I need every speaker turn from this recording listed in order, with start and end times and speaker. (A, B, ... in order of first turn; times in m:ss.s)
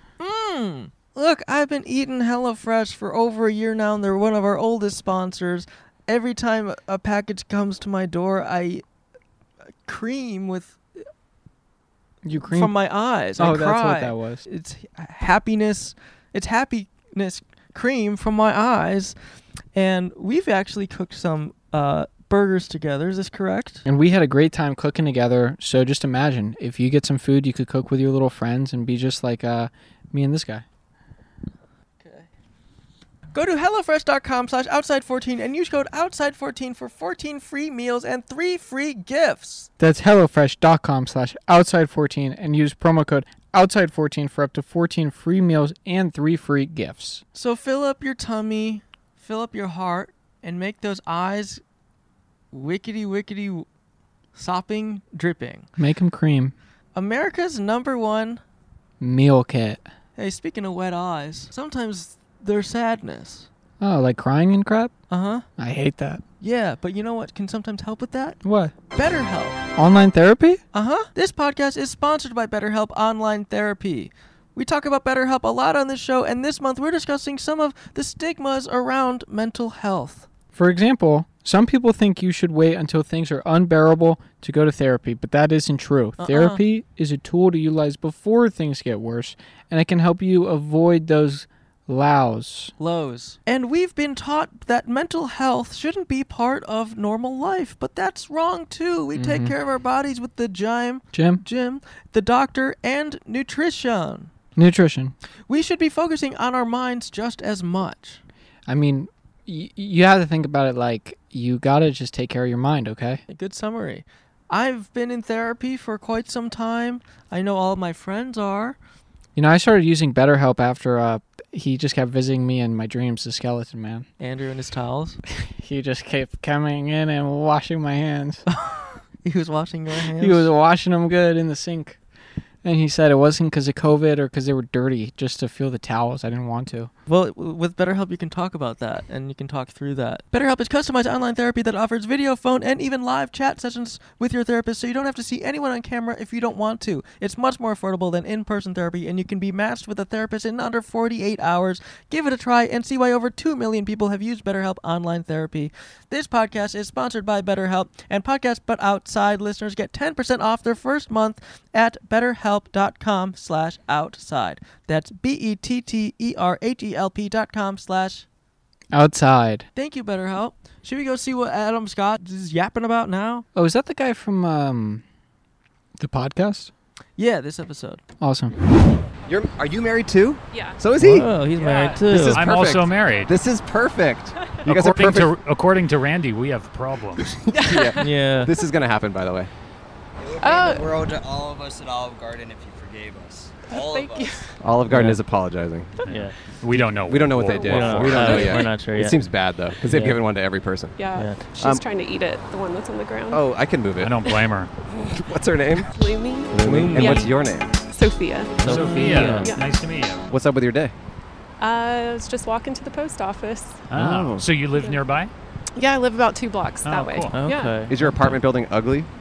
0:00.2-0:08.8 A
0:09.8-0:10.8 A
0:12.2-0:14.4 B
0:12.5-0:19.2 A
0:19.7-0:23.8 A
0:23.8-0:30.6 B
0:33.3-0:39.7 A
0:39.8-0:47.2 B
0:47.3-0:51.6 A
0:52.5-0:53.6 A
0:54.3-0:55.7 A
0:55.8-0:56.5 B
0:56.9-0:58.4 A
0:59.0-0:59.8 B
1:00.2-1:03.5 A
1:03.8-1:04.9 B
1:05.1-1:05.4 A
1:05.6-1:06.2 B
1:06.4-1:08.4 A
1:08.4-1:08.7 B
1:08.9-1:09.6 A
1:09.8-1:10.6 B
1:10.7-1:20.3 A
1:20.5-1:32.7 B
1:26.2-1:26.6 A
1:32.8-1:44.3 A
1:39.1-1:39.5 B
1:41.1-1:41.4 B
1:44.6-1:45.1 B
1:45.5-1:48.2 A
1:48.7-1:53.2 B
1:53.3-1:58.8 A
1:59.3-2:04.0 B
2:04.2-2:05.2 A
2:05.6-2:08.4 B
2:08.5-2:10.5 A
2:10.1-2:12.0 B
2:12.6-2:16.9 B
2:17.1-2:48.2 A
2:48.9-2:49.7 B
2:49.7-2:53.4 A
2:53.5-2:55.0 B
2:56.0-2:56.7 B
2:57.2-2:58.0 A
2:58.2-2:58.6 B
2:59.3-3:01.4 C
3:00.5-3:00.8 D
3:01.0-3:02.4 A
3:01.6-3:03.3 E
3:02.0-3:05.3 C
3:04.6-3:07.4 E
3:07.5-3:08.1 D
3:07.5-3:09.5 C
3:08.0-3:08.5 A
3:10.2-3:14.4 F
3:10.4-3:10.8 D
3:13.7-3:14.5 D
3:14.6-3:15.9 C
3:14.9-3:15.2 A
3:16.0-3:18.5 E
3:16.1-3:16.3 A
3:17.0-3:21.0 C
3:17.6-3:19.2 A
3:18.2-3:18.7 D
3:19.8-3:20.2 A
3:21.0-3:23.4 D
3:21.1-3:21.4 A
3:23.3-3:24.2 C
3:24.0-3:24.7 E
3:24.9-3:25.9 C
3:25.9-3:27.3 D
3:26.5-3:27.7 C
3:26.6-3:27.3 A
3:27.9-3:29.7 D
3:28.6-3:29.5 A
3:28.6-3:30.3 E
3:30.3-3:30.9 C
3:31.6-3:33.9 D
3:33.9-3:35.3 E
3:33.9-3:34.5 C
3:35.8-3:37.8 D
3:36.8-3:37.4 E
3:37.3-3:38.0 A
3:37.8-3:39.1 C